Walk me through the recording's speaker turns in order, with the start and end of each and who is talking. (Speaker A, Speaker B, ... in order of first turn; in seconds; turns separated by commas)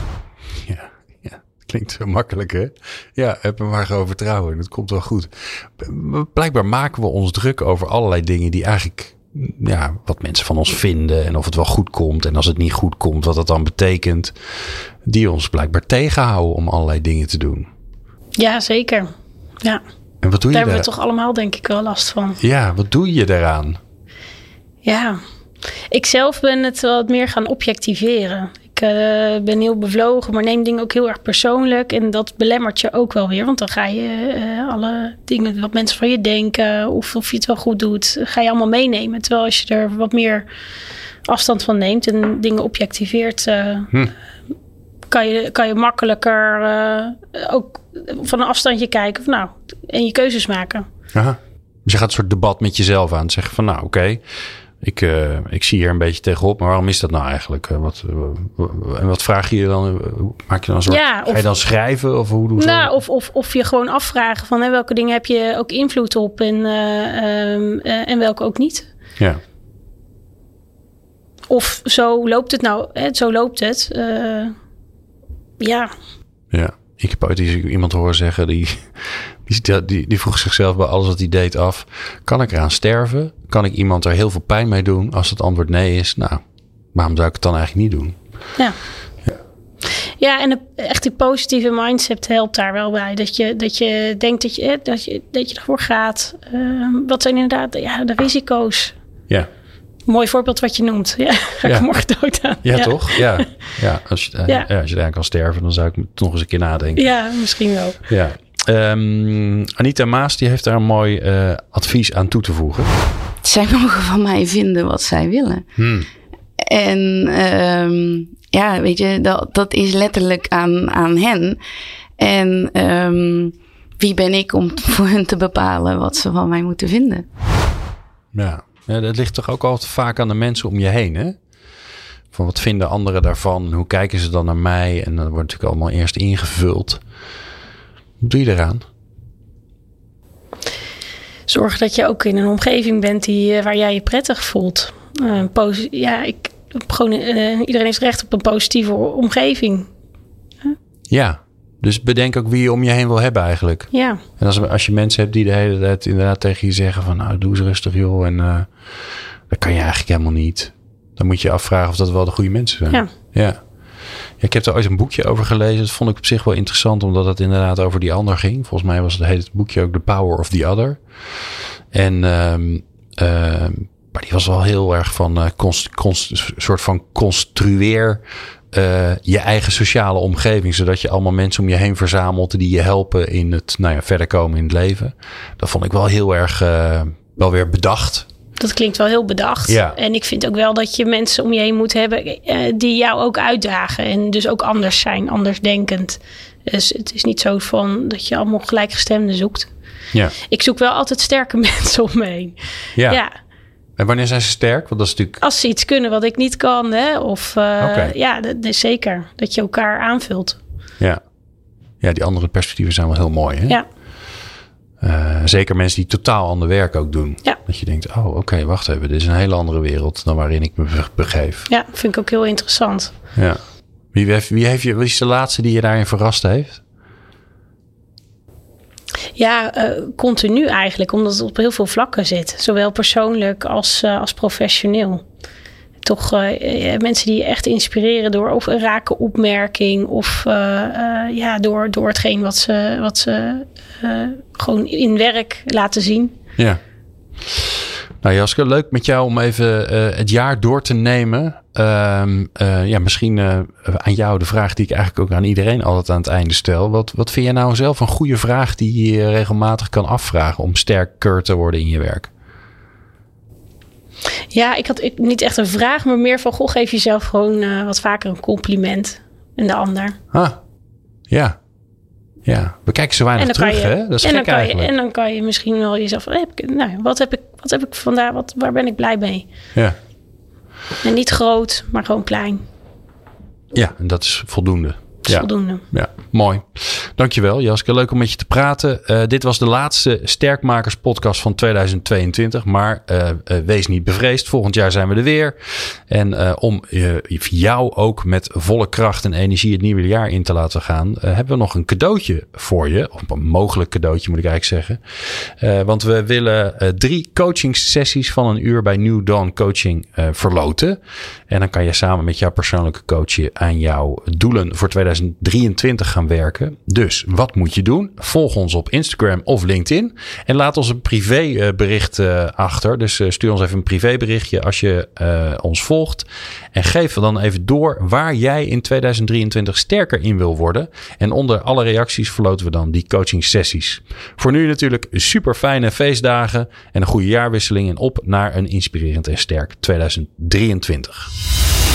Speaker A: 0.7-14.3, Speaker A: 15.0-17.7, Speaker B: 18.4-19.1, Speaker A: 20.2-20.9, Speaker B: 20.5-22.4, Speaker A: 22.4-23.8, Speaker B: 24.8-25.2, Speaker B: 25.9-40.5, Speaker B: 41.3-43.9, Speaker B: 45.1-50.9, Speaker A: 51.1-54.2, Speaker A: 54.8-62.9, Speaker B: 60.9-61.4, Speaker B: 62.6-68.9, Speaker B: 71.5-74.5, Speaker B: 75.6-75.9, Speaker A: 76.5-86.4, Speaker A: 86.9-88.2, Speaker B: 90.2-98.9, Speaker B: 100.1-103.4, Speaker A: 102.6-107.0, Speaker B: 107.0-108.0, Speaker A: 108.1-112.9, Speaker C: 113.4-115.6, Speaker A: 115.8-116.1, Speaker C: 116.6-121.6, Speaker C: 122.2-127.2, Speaker A: 128.3-131.4, Speaker A: 132.3-137.0, Speaker A: 138.2-138.8, Speaker B: 141.5-149.9, Speaker A: 151.1-163.6, Speaker B: 153.9-154.2, Speaker A: 164.4-171.0, Speaker A: 171.9-178.2, Speaker A: 178.7-188.2, Speaker B: 188.6-199.7, Speaker A: 189.7-189.9, Speaker B: 200.5-202.6, Speaker A: 204.0-205.4, Speaker B: 205.4-210.6, Speaker A: 207.8-208.1, Speaker A: 212.0-213.8, Speaker A: 215.0-221.7, Speaker B: 221.7-223.1, Speaker A: 224.1-226.8, Speaker B: 229.3-235.2, Speaker B: 236.0-246.3, Speaker A: 247.4-262.3, Speaker B: 264.5-270.2, Speaker A: 271.3-271.6, Speaker A: 272.4-274.9, Speaker B: 273.4-279.5, Speaker B: 281.0-282.6, Speaker A: 283.7-311.0, Speaker B: 285.3-285.8, Speaker A: 311.5-341.3